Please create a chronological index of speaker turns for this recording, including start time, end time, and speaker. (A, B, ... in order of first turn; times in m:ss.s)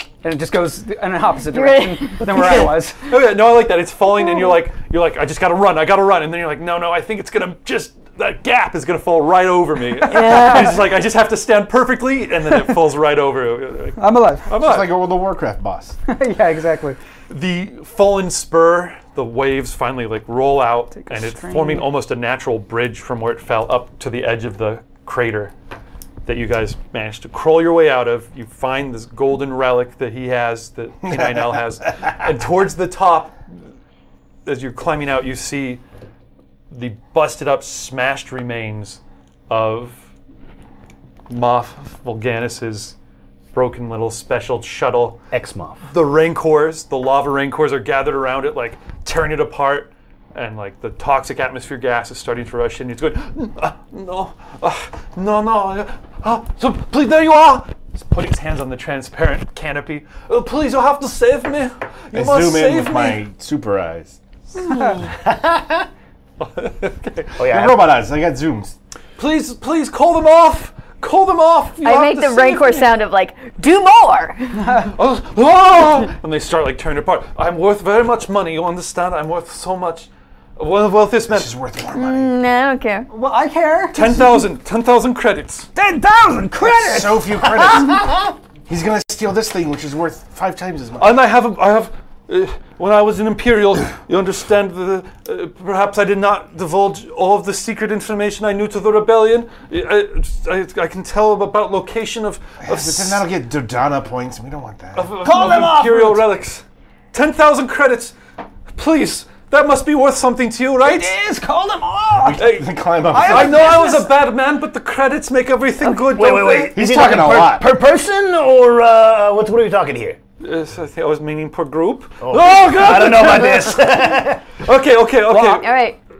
0:00.2-0:03.1 A
0:01.5-0:02.7 B
0:03.1-0:14.9 C
0:10.0-0:10.8 B
0:10.1-0:10.7 A
0:14.0-0:14.5 A
0:14.6-0:16.0 D
0:16.1-0:17.0 A
0:17.3-0:25.5 C
0:21.0-0:21.9 A
0:26.2-0:33.4 C
0:31.1-0:31.6 D
0:34.5-0:35.8 C
0:36.7-0:40.0 C
0:41.3-0:43.0 C
0:43.5-0:45.2 C
0:45.3-0:45.8 E
0:45.9-1:03.2 C
1:02.1-1:04.2 D
1:04.6-1:05.1 C
1:05.0-1:05.9 E
1:06.4-1:07.5 C
1:07.4-1:07.8 E
1:07.5-1:08.8 D
1:09.2-1:12.9 C
1:11.8-1:14.9 B
1:14.6-1:14.9 A
1:14.8-1:21.5 C
1:21.3-1:22.3 D
1:21.9-1:23.1 B
1:23.1-1:24.2 A
1:23.9-1:25.7 C
1:25.8-1:27.3 A
1:26.6-1:31.2 D
1:27.4-1:28.3 E
1:31.0-1:43.2 C
1:42.6-1:45.1 D
1:44.9-1:48.2 C
1:45.2-1:46.3 A
1:48.7-1:51.1 C
1:50.8-1:52.5 A
1:52.2-1:53.8 D
1:52.4-1:56.7 C
1:53.1-1:54.1 A
1:56.0-2:00.2 E
1:56.7-1:57.7 D
2:00.4-2:05.8 C
2:02.2-2:04.4 E
2:05.3-2:05.6 A
2:05.4-2:06.0 B